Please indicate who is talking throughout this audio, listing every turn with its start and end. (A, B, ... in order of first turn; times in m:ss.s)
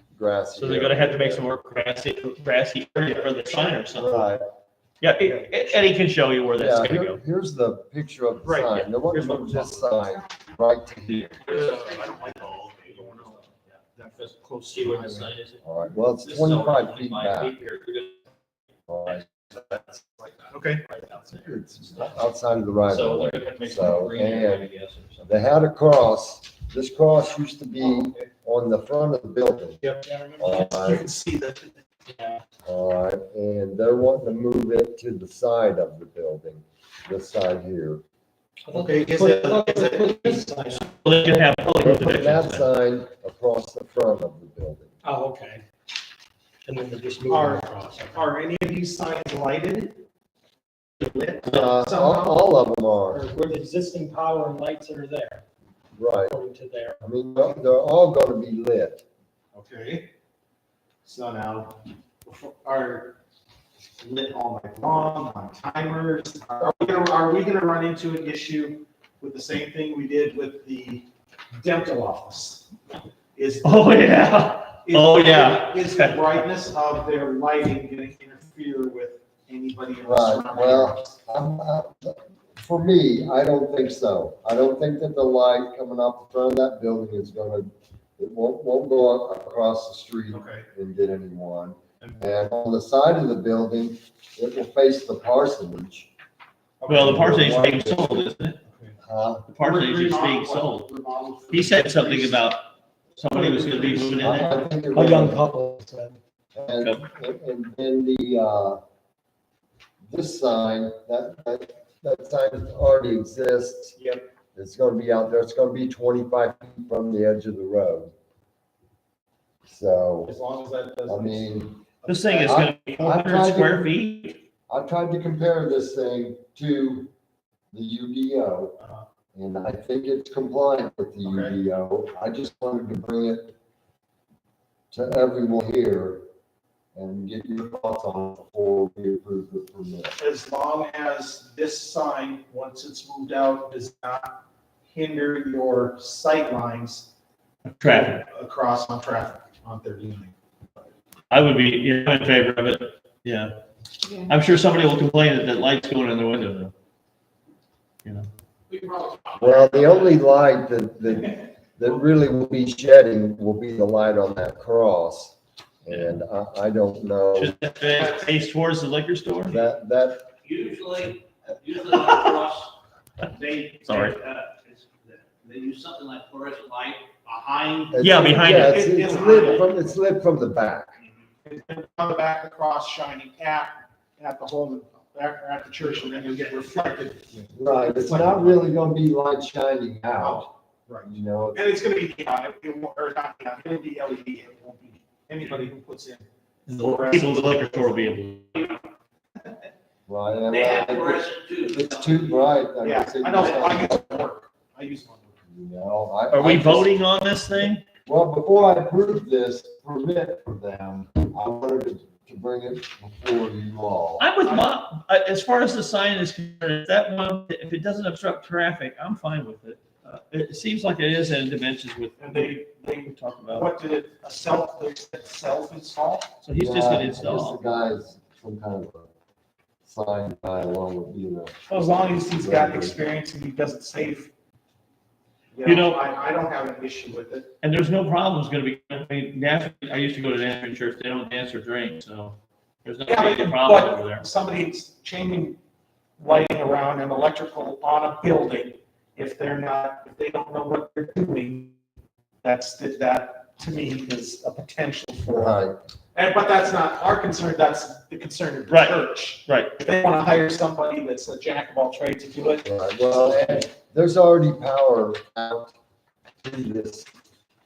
0:00.1-0:01.5 A
0:00.5-0:04.3 B
0:03.1-0:03.7 C
0:03.9-0:04.4 A
0:05.0-0:07.2 B
0:05.2-0:05.5 C
0:06.5-0:11.5 A
0:08.6-0:09.1 B
0:09.3-0:09.8 D
0:11.1-0:12.0 B
0:11.4-0:13.4 C
0:11.9-0:12.2 E
0:14.0-0:15.6 B
0:15.6-0:17.6 A
0:16.2-0:18.2 B
0:18.9-0:19.3 A
0:20.5-0:20.8 C
0:20.7-0:22.1 B
0:21.4-0:24.7 A
0:22.9-0:25.3 B
0:25.2-0:29.8 A
0:27.9-0:28.2 C
0:29.8-0:32.3 C
0:30.0-0:30.4 D
0:30.4-0:31.0 A
0:32.6-0:38.0 A
0:38.6-0:40.4 D
0:38.7-0:41.0 C
0:41.0-0:42.6 B
0:41.8-0:44.9 A
0:45.0-0:45.6 D
0:46.6-0:48.2 D
0:47.3-0:50.0 C
0:51.0-0:52.4 C
0:51.4-0:53.3 A
0:53.1-0:55.4 D
0:56.0-0:56.4 A
0:56.3-0:57.0 D
0:57.0-0:59.0 A
0:59.5-1:00.1 C
1:01.0-1:03.2 C
1:04.0-1:11.0 C
1:11.6-1:12.7 C
1:13.3-1:21.2 C
1:13.6-1:16.2 B
1:20.0-1:36.1 A
1:30.3-1:30.7 C
1:36.8-1:37.4 C
1:36.9-1:38.6 B
1:37.0-1:38.2 A
1:38.6-1:39.0 C
1:39.0-1:39.5 A
1:39.5-1:40.9 B
1:39.6-1:42.4 C
1:41.5-1:42.6 B
1:43.2-1:44.6 B
1:43.2-1:44.4 C
1:44.2-1:45.4 A
1:44.9-1:46.2 D
1:46.5-1:48.8 A
1:50.0-1:54.0 A
1:54.0-1:54.2 C
1:54.5-1:58.1 A
1:59.6-2:00.3 A
2:00.2-2:02.7 C
2:01.1-2:01.8 A
2:02.0-2:04.4 B
2:02.4-2:04.0 A
2:04.7-2:07.1 A
2:07.7-2:08.8 A
2:08.8-2:09.0 C
2:09.3-2:13.5 A
2:11.2-2:11.6 C
2:14.9-2:16.2 A
2:16.9-2:20.1 A
2:20.1-2:24.4 C
2:24.9-2:27.1 C
2:27.8-2:28.2 B
2:27.8-2:30.3 C
2:31.3-2:33.5 B
2:34.2-2:36.7 B
2:38.7-2:40.2 C
2:39.4-2:47.5 A
2:45.9-2:46.2 B
2:47.4-2:49.6 B
2:49.5-2:50.3 A
2:50.4-2:57.9 E
2:53.8-2:54.2 B
2:57.9-3:00.9 A
2:58.0-2:58.7 B
2:58.4-2:59.9 C
3:01.4-3:08.6 C
3:06.1-3:06.8 E
3:07.5-3:10.5 A
3:10.2-3:18.1 C
3:11.0-3:11.8 A
3:16.7-3:18.8 B
3:20.1-3:24.2 A
3:20.5-3:22.5 E
3:22.8-3:25.4 C
3:25.5-3:27.0 A
3:26.3-3:27.8 B
3:28.0-3:34.3 A
3:34.2-3:43.7 B
3:34.4-3:34.8 C
3:42.2-3:46.3 C
3:46.4-3:47.6 B
3:46.6-3:49.1 A
3:49.8-3:51.6 A
3:51.7-3:54.3 C
3:52.2-3:53.0 A
3:55.5-3:57.5 C
3:55.6-3:56.0 B
3:57.6-4:04.2 B
4:03.0-4:05.6 C
4:06.2-4:11.7 C
4:12.4-4:15.6 C
4:15.3-4:15.8 A
4:16.1-4:22.6 C
4:18.7-4:19.7 B
4:22.4-4:25.7 A
4:26.4-4:27.1 A